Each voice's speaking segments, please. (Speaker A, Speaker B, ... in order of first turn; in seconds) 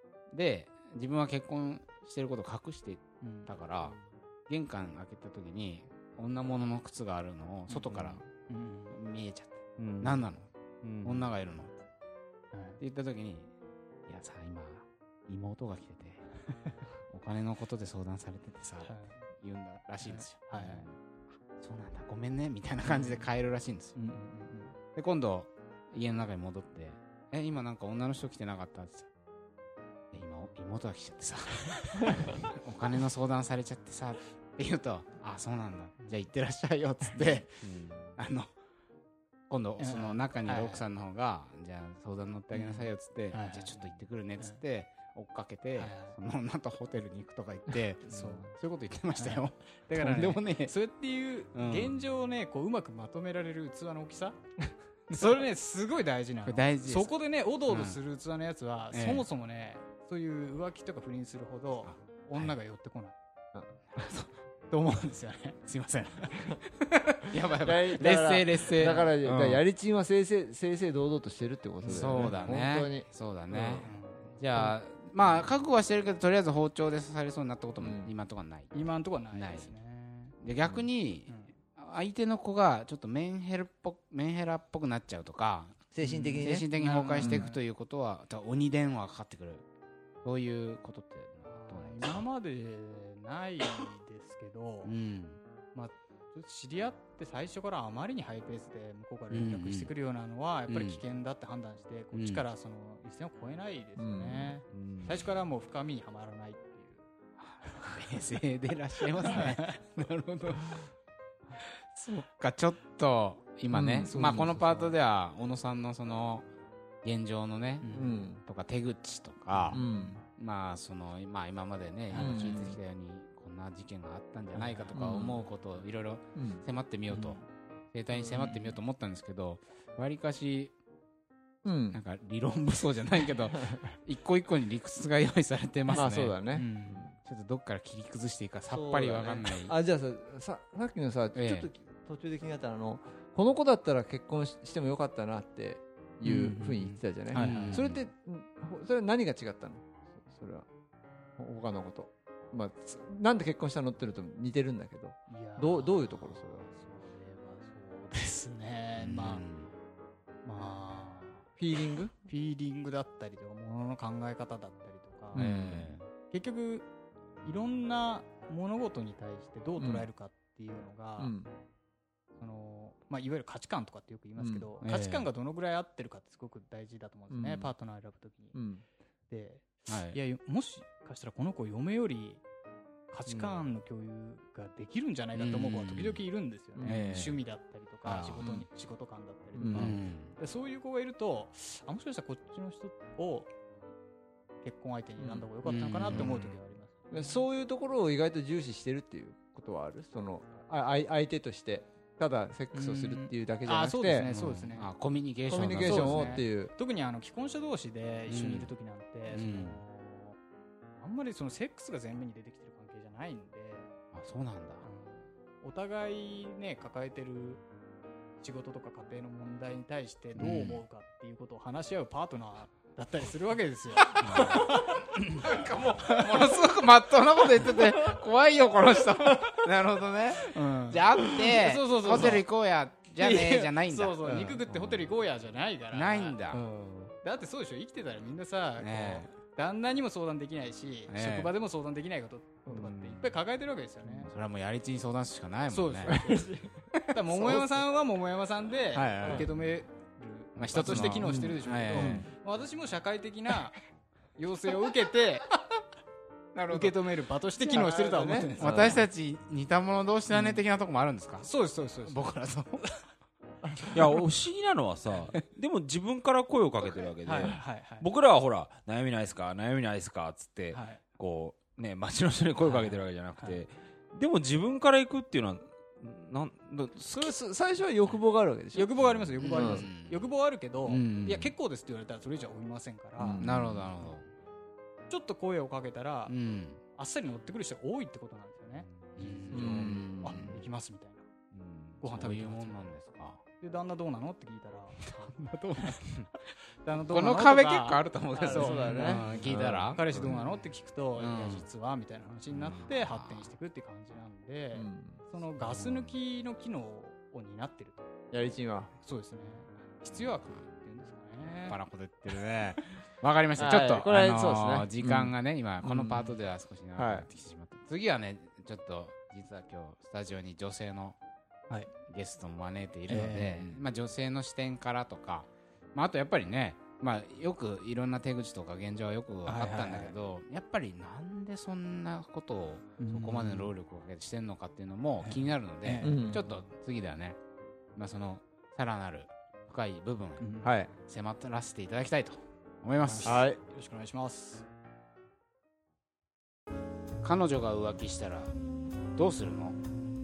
Speaker A: 0.3-4.0, 4.5-8.2, 8.9-10.5, 11.0-11.7, 12.8-13.5, 14.1-16.3, 17.1-23.9, 24.9-29.1, 30.1-38.5, 39.5-50.7, 51.5-52.0, 55.1-55.4, 56.4-57.1, 57.7-58.0, 58.9-59.3, 61.9-62.5, 63.9-64.3, 65.6-69.6, 71.8-78.7, 79.3-79.7, 80.4-85.8, 86.4-89.6, 90.2-92.2, 94.8-95.4, 99.3-99.9, 100.7-101.0, 102.1-102.4, 107.4-110.9, 111.9-116.5, 117.0-127.4, 127.9-130.7, 131.9-136.4, 137.2-139.7, 141.3-141.7, 147.3-148.1, 159.0-159.7, 165.3-166.1, 174.8-175.3, 179.9-180.2, 185.3-186.2, 186.8-187.4, 188.0-188.4, 189.7-190.3, 195.9-196.6, 204.3-206.4, 208.3-208.7, 209.3-209.8, 214.1-214.8, 220.3-220.8, 224.1-224.7, 225.3-235.1, 235.9-236.6, 238.8-239.3, 241.1-241.5, 242.7-243.3, 244.2-246.2, 247.1-247.7, 248.9-249.5, 250.5-252.3, 256.5-257.0, 258.6-261.5, 262.0-262.8, 279.4-280.2, 280.9-281.5, 283.4-284.3, 286.3-286.8, 288.9-290.7, 291.5-293.4, 295.0-296.3, 297.1-300.4, 301.1-301.6, 302.5-303.5, 305.6-306.2, 310.1-310.4, 311.6-321.2, 322.0-337.4, 337.9-340.5, 341.0-343.4, 347.2-348.5, 349.1-349.8
Speaker B: 3.2-3.5, 7.7-8.9, 12.5-12.8, 18.8-19.3, 20.0-20.9, 22.8-23.2, 23.9-24.8, 37.1-37.4, 39.8-40.8, 42.5-44.6, 45.8-46.2, 48.0-48.5, 49.1-54.4, 55.1-63.1, 64.7-65.6, 66.2-66.5, 73.8-74.4, 78.7-80.4, 81.3-81.5, 86.0-87.6, 91.5-94.9, 95.7-107.0, 109.2-109.8, 114.0-115.0, 117.8-118.2, 119.7-120.2, 122.1-122.7, 124.6-124.9, 127.1-127.5, 135.9-137.1, 146.2-147.8, 155.3-159.4, 160.4-161.5, 162.2-165.5, 166.3-166.9, 167.4-171.3, 172.4-178.6, 179.3-182.4, 183.1-193.5, 194.6-197.4, 202.7-204.9, 205.8-210.4, 211.0-213.9, 214.8-217.6, 218.4-226.4, 230.4-232.4, 233.2-236.4, 237.2-244.3, 245.7-246.5, 247.1-253.8, 254.4-255.5, 256.7-259.1, 260.3-260.6, 261.4-262.3, 267.2-268.1, 270.7-271.0, 272.6-273.6, 278.7-283.6, 285.1-286.3, 286.9-291.3, 292.0-292.8, 293.6-296.0, 296.7-308.1, 309.0-311.8, 323.1-323.8, 329.4-330.1, 333.0-333.7, 335.2-336.2, 340.4-340.7, 343.0-344.6
Speaker C: 9.8-10.1, 37.6-38.1, 104.7-105.1, 263.9-277.3
Speaker D: 67.6-73.9, 77.8-78.1, 85.9-87.5, 104.0-104.6, 113.7-114.5, 117.9-118.4, 119.7-120.2, 122.1-122.8, 124.9-125.4, 126.3-126.6, 131.6-132.0, 135.9-137.2, 138.7-150.7, 151.4-156.7, 161.6-162.1, 165.3-165.9, 169.8-170.1, 171.2-171.5, 174.4-174.7, 177.3-177.7, 178.5-178.8, 186.8-187.3, 188.4-188.7, 189.6-189.9, 195.2-196.4, 197.1-204.3, 205.5-206.7, 234.2-234.6, 236.5-237.1, 246.1-246.8, 249.2-249.5, 250.8-252.3, 257.6-259.0, 277.1-279.9, 283.2-283.5, 289.5-290.5, 298.4-300.4, 304.7-305.2, 308.3-308.9, 313.6-316.2, 316.9-317.3, 336.0-336.4, 340.6-340.9, 343.2-343.6